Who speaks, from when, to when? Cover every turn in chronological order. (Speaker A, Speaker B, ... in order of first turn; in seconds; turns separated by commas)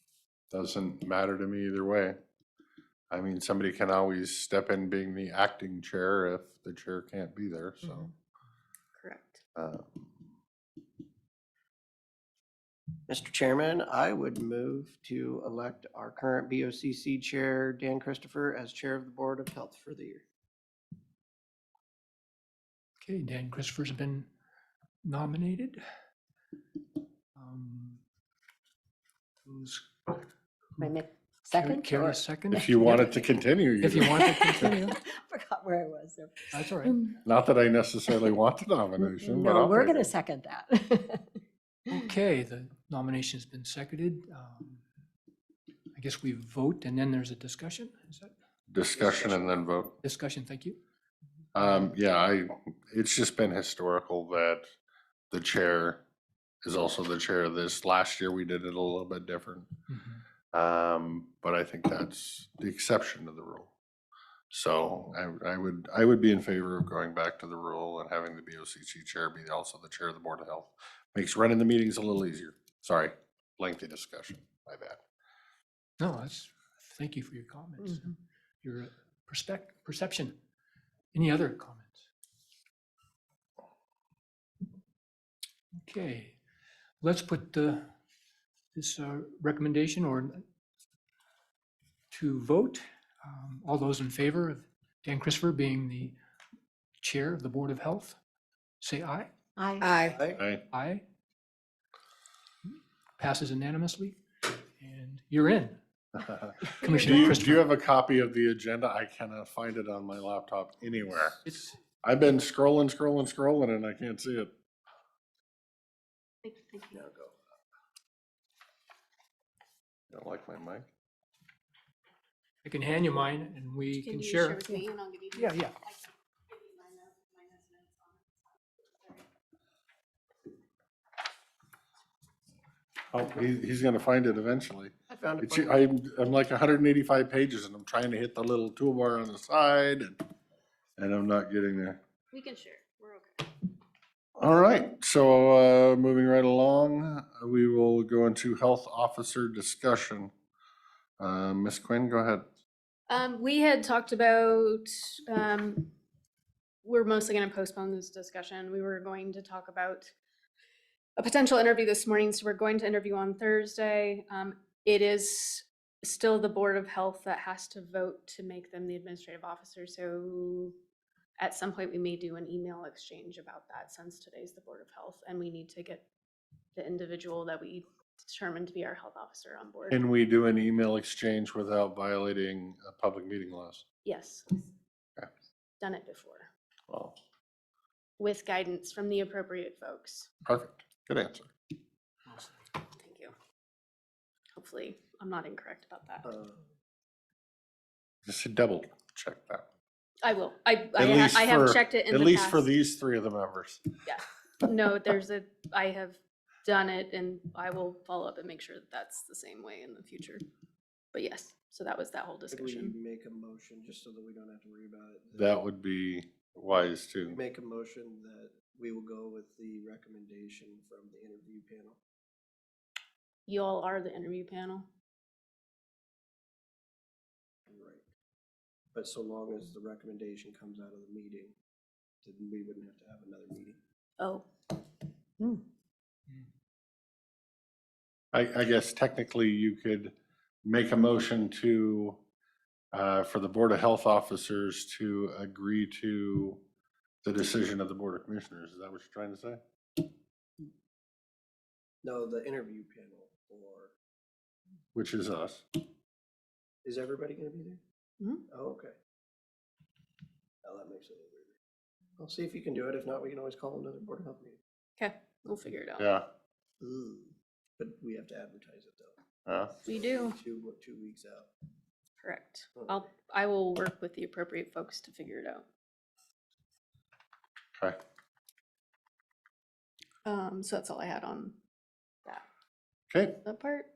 Speaker A: 0.5-2.1, Speaker A: 3.1-8.1, Speaker B: 9.0-9.4, Speaker A: 9.6-10.3, Speaker C: 13.1-20.2, Speaker D: 23.0-24.3, Speaker D: 25.0-25.8, Speaker D: 27.4-28.0, Speaker D: 29.4-30.2, Speaker E: 30.8-33.1, Speaker D: 31.5-33.2, Speaker A: 32.5-34.8, Speaker D: 33.8-35.0, Speaker E: 34.0-37.2, Speaker D: 36.5-37.0, Speaker A: 37.3-40.1, Speaker E: 39.0-42.1, Speaker D: 41.9-44.8, Speaker D: 45.9-48.3, Speaker A: 48.7-50.0, Speaker C: 49.0-49.6, Speaker D: 50.0-50.8, Speaker A: 51.5-54.7, Speaker A: 55.3-56.0, Speaker A: 56.6-59.7, Speaker D: 59.9-60.2, Speaker A: 60.5-63.7, Speaker A: 64.5-75.0, Speaker D: 76.0-80.4, Speaker D: 81.1-82.0, Speaker D: 85.8-86.4, Speaker D: 87.0-87.9, Speaker D: 88.7-90.4, Speaker D: 92.1-96.2, Speaker D: 97.0-98.2, Speaker D: 98.8-99.3, Speaker E: 99.6-100.2, Speaker B: 99.8-100.2, Speaker C: 100.0-100.4, Speaker A: 100.4-100.6, Speaker D: 100.7-101.0, Speaker D: 103.2-105.8, Speaker A: 106.2-111.4, Speaker D: 106.7-107.6, Speaker B: 106.8-107.3, Speaker D: 111.4-111.8, Speaker A: 112.0-114.5, Speaker B: 116.4-117.0, Speaker C: 116.9-117.3, Speaker A: 120.1-120.9, Speaker D: 122.6-124.7, Speaker B: 124.0-128.3, Speaker D: 125.3-125.8, Speaker A: 133.1-140.2, Speaker C: 135.1-135.8, Speaker A: 141.0-142.0, Speaker B: 142.3-143.5, Speaker A: 144.4-150.3, Speaker A: 151.2-152.4, Speaker B: 153.1-155.9, Speaker B: 156.8-160.1, Speaker B: 161.2-170.8, Speaker B: 171.4-176.1, Speaker B: 176.8-180.0, Speaker A: 179.9-183.8, Speaker B: 184.0-184.7, Speaker B: 185.8-186.5, Speaker A: 186.9-187.2, Speaker B: 188.2-190.3, Speaker A: 190.4-191.5, Speaker B: 192.9-193.3, Speaker B: 194.6-196.3, Speaker C: 196.2-196.6, Speaker A: 198.2-199.7, Speaker B: 200.2-202.7, Speaker A: 201.0-203.8, Speaker B: 204.1-210.4, Speaker B: 211.1-213.0, Speaker C: 212.5-215.5, Speaker A: 215.4-217.4, Speaker C: 217.3-222.0, Speaker B: 223.5-224.9, Speaker C: 227.7-228.0, Speaker C: 228.9-231.6, Speaker C: 232.2-233.8, Speaker B: 234.2-234.5, Speaker A: 238.3-240.1, Speaker A: 240.7-242.2, Speaker A: 242.9-246.6, Speaker A: 247.2-249.6, Speaker C: 252.0-253.9, Speaker A: 254.9-255.7, Speaker C: 256.8-257.8, Speaker C: 258.5-258.9, Speaker C: 260.6-261.6, Speaker C: 262.2-264.6, Speaker B: 265.0-266.1, Speaker A: 266.0-266.2, Speaker C: 266.8-269.2, Speaker A: 269.5-269.7, Speaker C: 269.8-271.5, Speaker B: 269.9-270.4, Speaker B: 272.2-275.6, Speaker B: 280.2-281.6, Speaker A: 283.1-283.4, Speaker B: 283.4-283.9